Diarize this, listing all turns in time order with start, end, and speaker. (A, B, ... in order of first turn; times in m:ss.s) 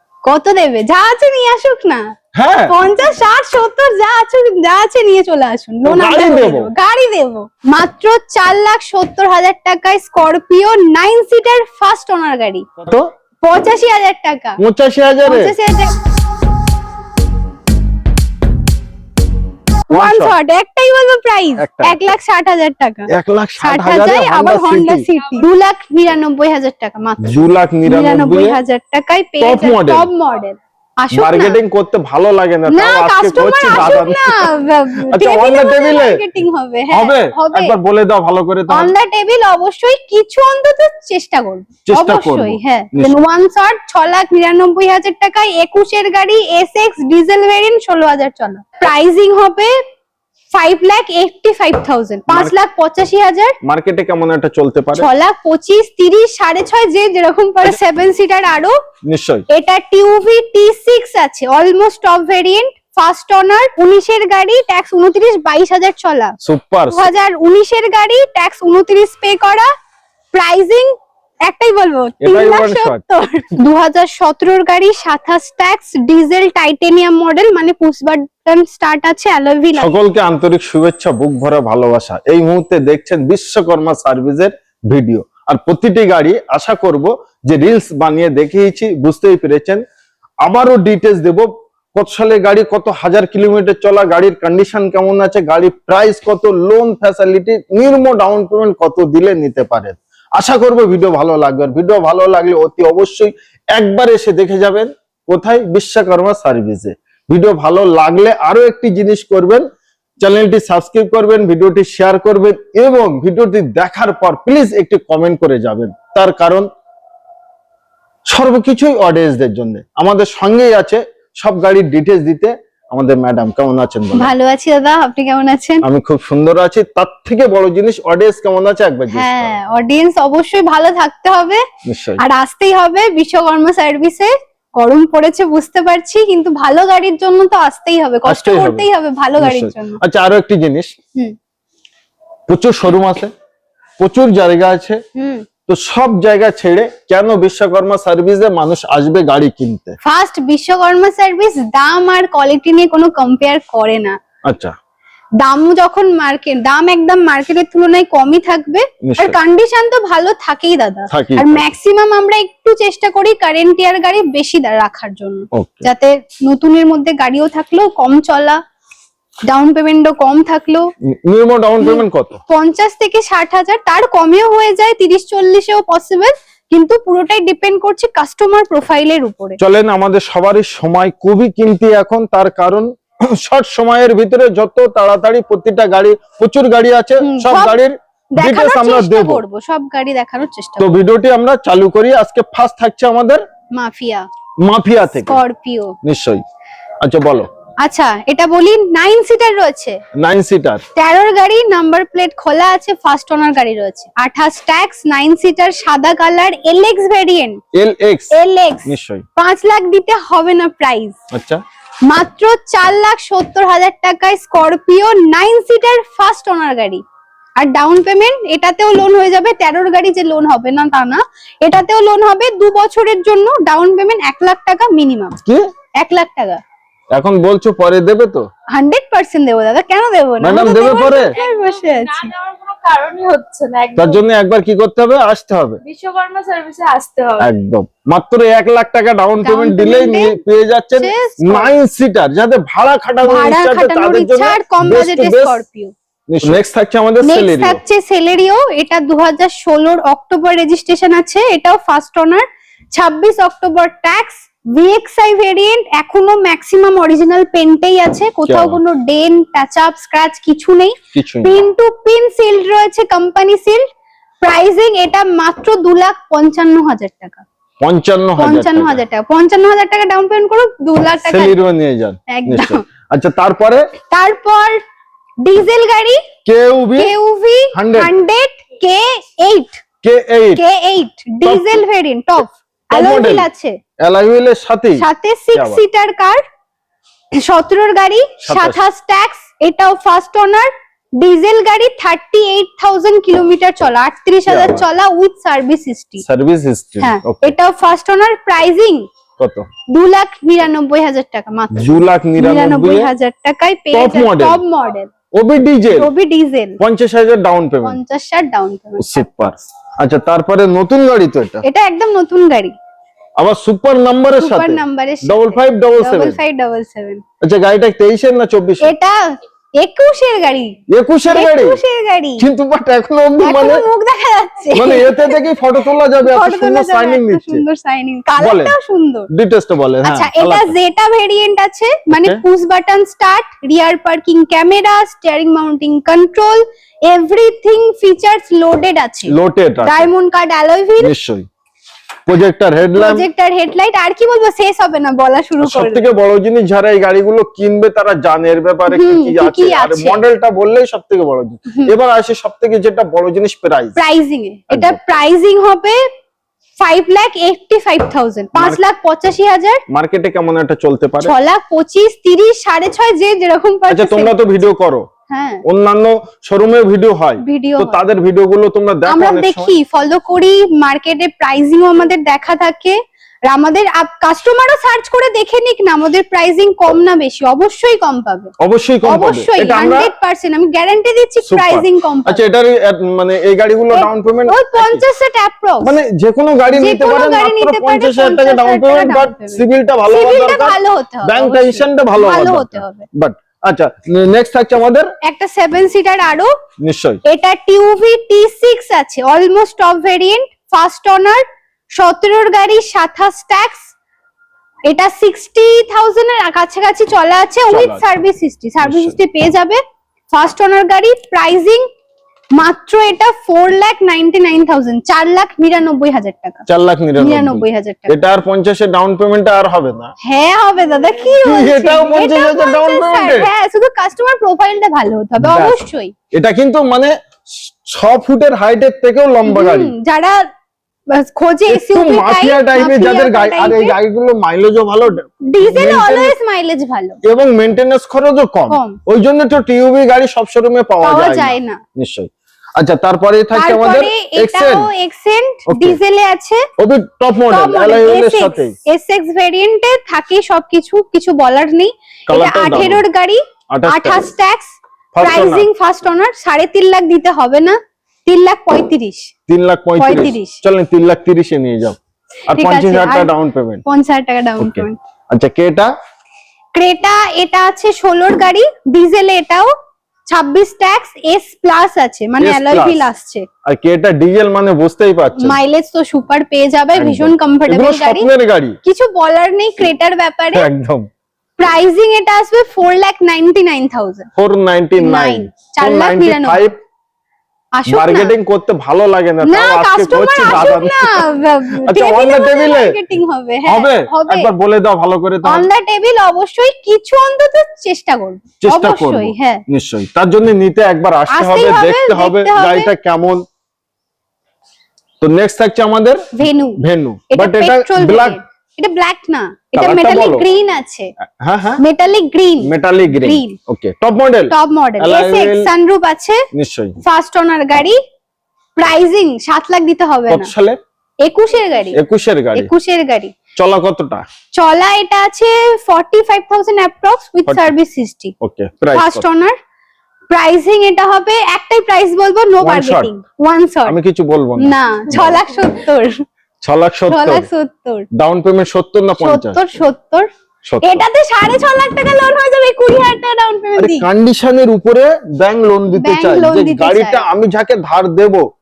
0:00.2-0:02.0 A
0:02.3-0:02.8 B
0:02.7-0:12.7 A
0:05.8-0:06.7 B
0:12.8-0:13.1 B
0:13.4-0:14.6 A
0:14.6-0:15.6 B
0:15.2-0:16.0 A
0:19.9-0:23.1 A
0:19.9-0:20.3 B
0:21.6-0:22.0 B
0:23.1-0:25.1 B
0:23.6-0:31.6 A
0:27.2-0:28.6 B
0:29.4-0:30.1 B
0:31.1-0:34.5 B
0:32.7-0:37.8 A
0:35.1-0:36.2 B
0:36.9-0:38.9 B
0:38.7-0:49.7 A
0:41.8-0:43.2 B
0:50.5-0:53.6 A
0:53.6-0:55.1 B
0:54.9-0:58.7 A
0:59.1-0:59.4 B
0:59.5-1:06.3 A
1:06.4-1:07.1 B
1:06.9-1:09.7 A
1:10.3-1:10.9 A
1:11.5-1:19.9 A
1:12.2-1:13.0 B
1:19.8-1:29.8 B
1:30.4-1:49.6 B
1:50.2-1:56.6 B
1:58.3-2:04.3 B
2:04.1-2:05.8 A
2:05.8-2:09.6 B
2:09.1-2:11.6 A
2:11.8-2:12.2 B
2:12.2-2:20.0 A
2:18.2-2:20.9 B
2:22.5-2:23.3 B
2:24.0-2:25.0 B
2:25.2-2:25.5 A
2:25.6-2:30.0 B
2:30.0-2:34.2 A
2:34.5-2:34.7 B
2:35.4-2:48.6 A
2:39.0-2:39.4 B
2:41.1-2:41.6 B
2:45.5-2:45.9 B
2:49.5-2:50.9 A
2:51.1-2:52.4 B
2:51.8-2:59.6 A
2:59.6-3:09.4 B
3:07.2-3:07.8 A
3:08.3-3:10.9 A
3:10.8-3:13.4 B
3:13.7-3:14.3 A
3:14.6-3:15.4 B
3:15.1-3:16.0 A
3:16.0-3:16.4 B
3:17.0-3:17.5 B
3:17.8-3:20.0 A
3:20.1-3:20.8 B
3:20.9-3:27.6 A
3:27.7-3:29.2 B
3:28.3-3:31.2 A
3:31.3-3:31.6 B
3:32.1-3:37.0 A
3:37.6-3:45.4 A
3:46.0-3:46.6 A
3:47.1-3:48.4 B
3:48.7-3:52.3 A
3:50.4-3:51.4 B
3:50.9-3:54.2 C
3:54.0-3:55.8 B
3:55.8-3:57.5 C
3:57.4-4:05.6 B
3:59.4-4:00.4 A
4:01.0-4:01.7 A
4:03.2-4:05.9 A
4:06.3-4:07.8 B
4:07.2-4:23.8 A
4:18.5-4:18.8 B
4:21.1-4:21.6 B
4:24.4-4:27.4 A
4:27.8-4:29.0 B
4:28.4-4:31.6 A
4:31.2-4:33.9 B
4:32.3-4:32.8 A
4:34.1-4:34.8 A
4:35.4-4:36.2 A
4:36.4-4:37.1 B
4:37.0-4:39.8 A
4:37.7-4:38.1 B
4:40.0-4:40.6 B
4:40.6-4:43.8 A
4:41.4-4:41.8 B
4:42.9-4:43.5 B
4:44.0-4:45.8 B
4:45.0-4:46.4 A
4:47.3-4:56.2 A
4:48.4-4:48.8 B
4:54.5-4:54.8 B
4:56.2-4:57.5 B
4:57.0-4:59.1 A
4:59.4-4:59.7 B
4:59.9-5:05.1 A
5:01.7-5:03.1 B
5:03.9-5:04.6 B
5:05.3-5:06.1 B
5:05.9-5:06.8 A
5:06.8-5:08.0 B
5:07.8-5:09.1 A
5:09.0-5:11.6 B
5:11.6-5:12.7 A
5:13.4-5:16.4 B
5:14.4-5:17.2 A
5:17.4-5:18.9 B
5:18.8-5:20.8 A
5:20.9-5:21.8 B
5:21.3-5:22.4 A
5:22.4-5:23.8 B
5:23.4-5:25.4 A
5:24.7-5:27.6 B
5:26.2-5:29.3 A
5:28.4-5:28.8 B
5:29.3-5:30.7 B
5:30.0-5:41.1 A
5:32.1-5:32.4 B
5:39.3-5:40.1 B
5:41.0-5:41.4 B
5:42.3-5:43.3 B
5:42.9-5:46.1 A
5:45.6-5:54.0 B
5:48.9-5:50.2 A
5:51.7-5:52.0 A
5:54.0-5:56.0 A
5:54.7-5:55.0 B
5:56.8-5:59.8 A
5:58.5-5:58.8 B
5:59.9-6:01.3 B
6:01.2-6:04.6 A
6:03.9-6:05.0 B
6:05.3-6:05.6 A
6:05.6-6:09.7 B
6:07.4-6:08.0 A
6:09.0-6:13.0 A
6:13.5-6:18.5 A
6:18.6-6:20.1 B
6:19.0-6:22.4 A
6:21.4-6:25.0 B
6:23.9-6:26.0 A
6:25.8-6:35.1 B
6:26.7-6:33.1 A
6:35.2-6:36.5 A
6:36.8-6:37.2 B
6:37.2-6:43.9 A
6:44.9-6:49.8 A
6:47.7-6:48.0 B
6:48.8-6:49.2 B
6:50.3-6:51.9 A
6:52.6-6:56.6 A
6:56.7-7:00.1 B
6:57.2-6:58.2 A
7:00.2-7:06.1 A
7:01.4-7:03.5 B
7:05.4-7:05.8 B
7:06.3-7:09.9 B
7:09.4-7:10.5 A
7:11.1-7:14.0 A
7:11.7-7:16.4 B
7:15.5-7:17.2 A
7:17.2-7:24.9 B
7:18.7-7:19.0 A
7:21.0-7:21.8 A
7:23.5-7:26.6 A
7:25.7-7:26.0 B
7:26.8-7:28.8 B
7:27.5-7:39.3 A
7:32.3-7:33.0 B
7:33.7-7:34.3 B
7:35.1-7:35.7 B
7:39.5-7:42.0 B
7:40.0-7:40.6 A
7:42.5-7:43.8 B
7:42.5-7:43.3 A
7:43.8-7:45.0 A
7:44.6-7:45.9 B
7:46.7-7:49.7 A
7:50.3-7:53.5 A
7:52.4-7:53.1 B
7:53.6-7:55.6 B
7:55.3-7:58.3 A
7:56.9-7:58.8 B
7:58.8-8:00.7 A
8:00.5-8:01.1 B
8:01.6-8:04.3 A
8:04.4-8:06.7 B
8:05.0-8:06.6 A
8:07.8-8:08.4 A
8:07.8-8:11.3 B
8:09.4-8:14.5 A
8:11.8-8:13.0 B
8:13.6-8:15.7 B
8:15.4-8:19.6 A
8:18.6-8:23.4 B
8:21.3-8:22.9 A
8:25.2-8:28.4 B
8:26.3-8:26.8 A
8:27.3-8:31.1 A
8:29.8-8:30.4 B
8:31.3-8:31.8 B
8:31.8-8:33.6 A
8:32.6-8:35.7 B
8:34.5-8:36.4 A
8:36.5-8:37.0 B
8:37.0-8:38.0 A
8:38.8-8:40.5 A
8:40.3-8:40.8 B
8:41.2-8:42.0 A
8:41.9-8:42.7 B
8:42.5-8:43.3 A
8:43.6-8:44.2 B
8:44.5-8:48.3 A
8:47.4-8:47.7 B
8:48.4-8:49.2 B
8:48.9-8:49.6 A
8:50.3-8:54.0 A
8:52.6-8:53.1 B
8:53.8-8:55.4 B
8:54.6-8:56.2 A
8:56.6-8:57.5 B
8:57.1-8:58.1 A
8:58.1-8:59.8 B
8:59.2-9:00.3 A
9:00.6-9:01.0 B
9:00.8-9:04.1 A
9:03.8-9:08.4 B
9:05.9-9:07.2 A